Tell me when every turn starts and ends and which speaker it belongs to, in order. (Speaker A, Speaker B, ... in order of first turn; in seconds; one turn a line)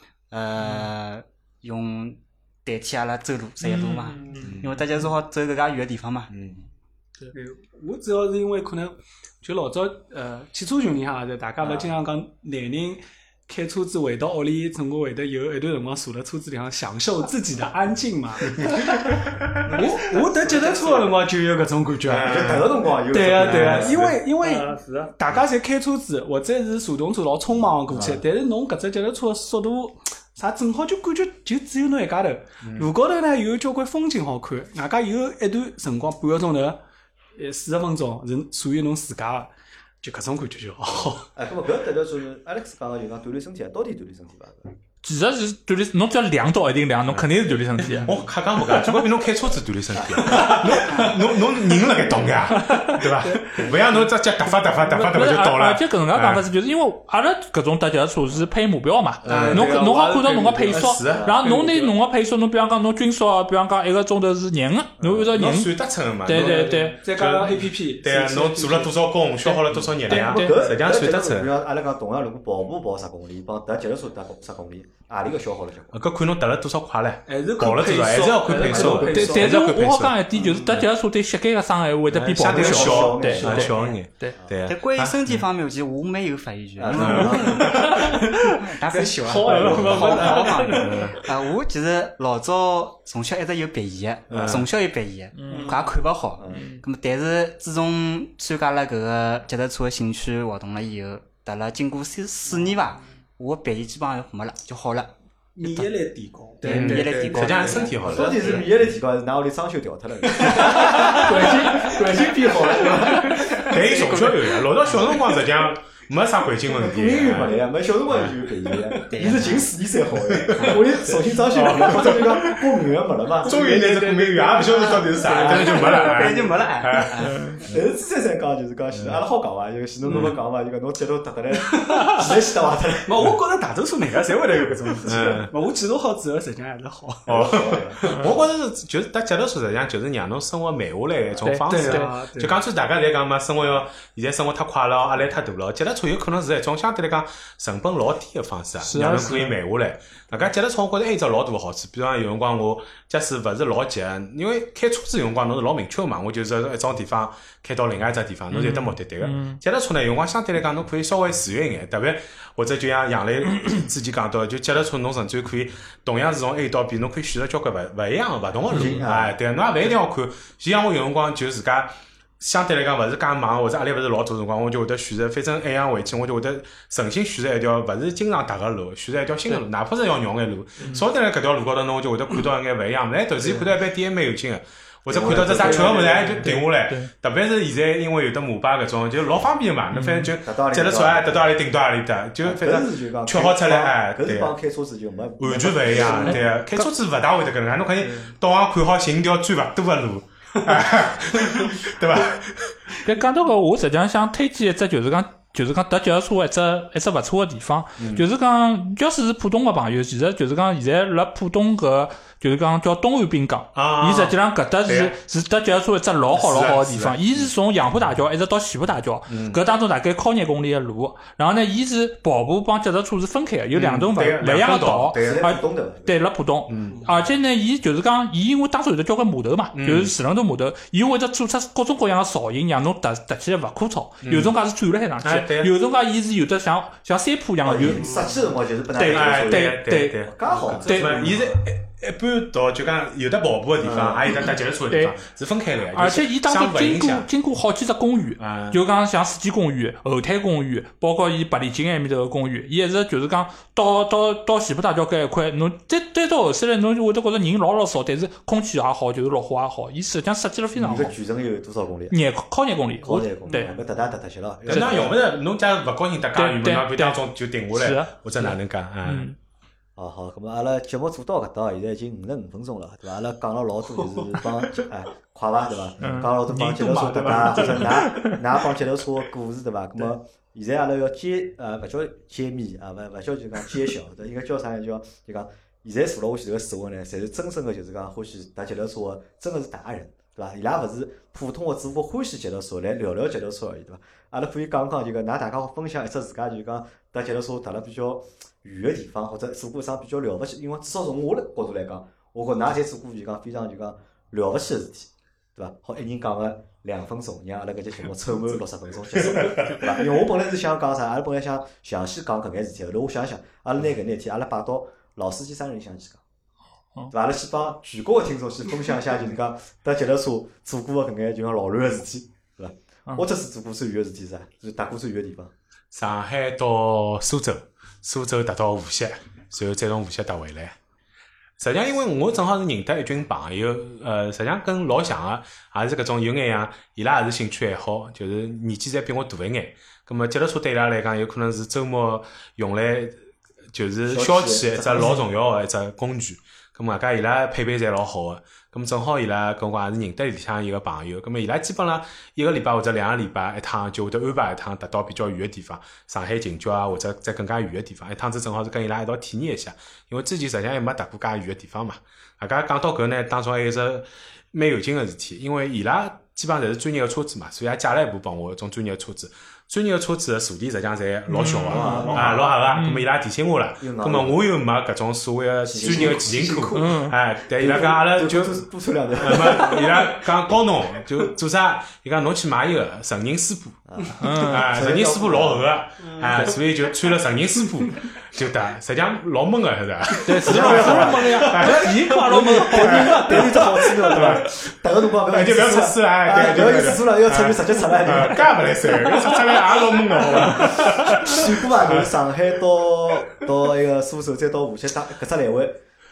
Speaker A: 0.3-6.5
Speaker B: 0.6-0.9
Speaker B: 3.6-4.6
Speaker C: 4.4-4.8
Speaker C: 6.3-6.6
Speaker D: 7.3-22.4
Speaker C: 19.4-19.9
Speaker C: 22.1-22.7
Speaker E: 22.1-24.1
Speaker D: 23.1-36.8
Speaker C: 23.4-24.2
Speaker B: 24.4-25.1
Speaker C: 32.6-32.9
Speaker D: 37.4-41.1
Speaker C: 40.9-41.2
Speaker E: 40.9-44.7
Speaker B: 45.0-48.1
Speaker C: 47.9-56.4
Speaker B: 50.3-50.8
Speaker D: 50.4-51.1
Speaker E: 52.0-52.4
Speaker B: 52.5-53.6
Speaker B: 54.9-67.0
Speaker C: 59.2-60.1
Speaker D: 59.2-62.0
Speaker C: 60.7-61.3
Speaker E: 65.0-65.3
Speaker C: 65.3-71.5
Speaker D: 66.3-69.0
Speaker B: 69.4-70.7
Speaker E: 69.8-76.0
Speaker C: 75.9-80.9
Speaker D: 77.3-79.4
Speaker B: 78.5-84.4
Speaker E: 78.5-79.6
Speaker C: 82.1-85.4
Speaker E: 82.3-83.7
Speaker D: 83.0-83.6
Speaker A: 83.5-84.0
Speaker A: 84.7-87.8
Speaker E: 86.8-87.9
Speaker C: 87.0-88.1
Speaker B: 87.6-88.2
Speaker D: 88.0-91.2
Speaker A: 88.7-105.9
Speaker E: 89.5-90.2
Speaker C: 89.5-90.2
Speaker B: 90.2-91.0
Speaker C: 90.8-91.2
Speaker C: 94.3-94.7
Speaker B: 95.3-95.8
Speaker D: 95.5-95.9
Speaker E: 96.4-96.7
Speaker B: 96.5-96.8
Speaker D: 102.5-103.0
Speaker D: 105.6-108.5
Speaker A: 106.6-108.7
Speaker C: 106.7-108.7
Speaker B: 106.9-107.4
Speaker E: 108.0-113.6
Speaker D: 110.3-113.7
Speaker B: 110.9-111.6
Speaker A: 113.6-115.2
Speaker C: 113.7-117.6
Speaker E: 116.7-123.6
Speaker C: 118.1-118.4
Speaker D: 118.7-119.3
Speaker A: 119.1-119.7
Speaker C: 120.3-120.9
Speaker C: 121.4-122.6
Speaker C: 123.4-127.7
Speaker D: 123.5-126.5
Speaker A: 124.5-127.6
Speaker E: 125.3-125.8
Speaker B: 127.2-127.6
Speaker E: 127.6-133.2
Speaker C: 128.9-129.2
Speaker C: 130.1-130.4
Speaker D: 131.5-132.5
Speaker D: 133.0-137.5
Speaker C: 135.1-135.5
Speaker C: 137.3-194.6
Speaker E: 137.3-138.4
Speaker B: 141.4-142.2
Speaker D: 141.7-142.6
Speaker B: 148.8-149.6
Speaker D: 148.9-149.4
Speaker B: 158.5-159.6
Speaker E: 168.7-169.4
Speaker B: 168.7-169.0
Speaker E: 185.1-186.4
Speaker D: 185.5-186.4
Speaker B: 186.4-187.1
Speaker B: 189.9-190.3
Speaker E: 190.4-191.6
Speaker E: 192.4-196.5
Speaker C: 195.4-202.8
Speaker B: 196.2-196.9
Speaker B: 198.0-198.3
Speaker B: 203.0-238.1
Speaker C: 208.0-208.2
Speaker C: 213.8-215.2
Speaker C: 216.3-217.5
Speaker C: 219.3-219.6
Speaker C: 223.8-225.4
Speaker E: 225.2-226.2
Speaker C: 226.7-227.1
Speaker D: 226.9-227.2
Speaker C: 229.7-230.1
Speaker C: 234.2-234.6
Speaker C: 235.2-235.7
Speaker E: 237.6-241.6
Speaker B: 238.9-240.3
Speaker C: 239.1-247.3
Speaker B: 240.8-241.2
Speaker E: 243.8-244.4
Speaker B: 244.9-245.2
Speaker B: 245.9-261.2
Speaker C: 248.4-248.8
Speaker E: 260.8-262.2
Speaker B: 262.1-263.7
Speaker E: 263.0-265.2
Speaker B: 264.7-265.1
Speaker C: 264.7-269.3
Speaker B: 266.4-269.4
Speaker E: 270.0-316.2
Speaker B: 274.2-274.4
Speaker B: 276.0-278.4
Speaker E: 317.1-325.5
Speaker C: 325.9-330.8
Speaker C: 331.6-343.2
Speaker C: 343.7-378.6
Speaker E: 344.1-345.2
Speaker B: 345.0-345.2
Speaker B: 371.3-373.1
Speaker E: 371.7-372.5
Speaker E: 373.8-374.5
Speaker E: 375.6-376.8
Speaker D: 375.8-376.9
Speaker B: 376.7-377.2
Speaker E: 377.5-380.1
Speaker C: 379.2-394.7
Speaker E: 383.9-385.7
Speaker B: 384.2-384.7
Speaker D: 386.0-386.4
Speaker B: 390.2-393.4
Speaker E: 390.4-399.4
Speaker D: 392.9-393.6
Speaker C: 395.3-402.1
Speaker E: 400.1-405.8
Speaker B: 400.5-400.8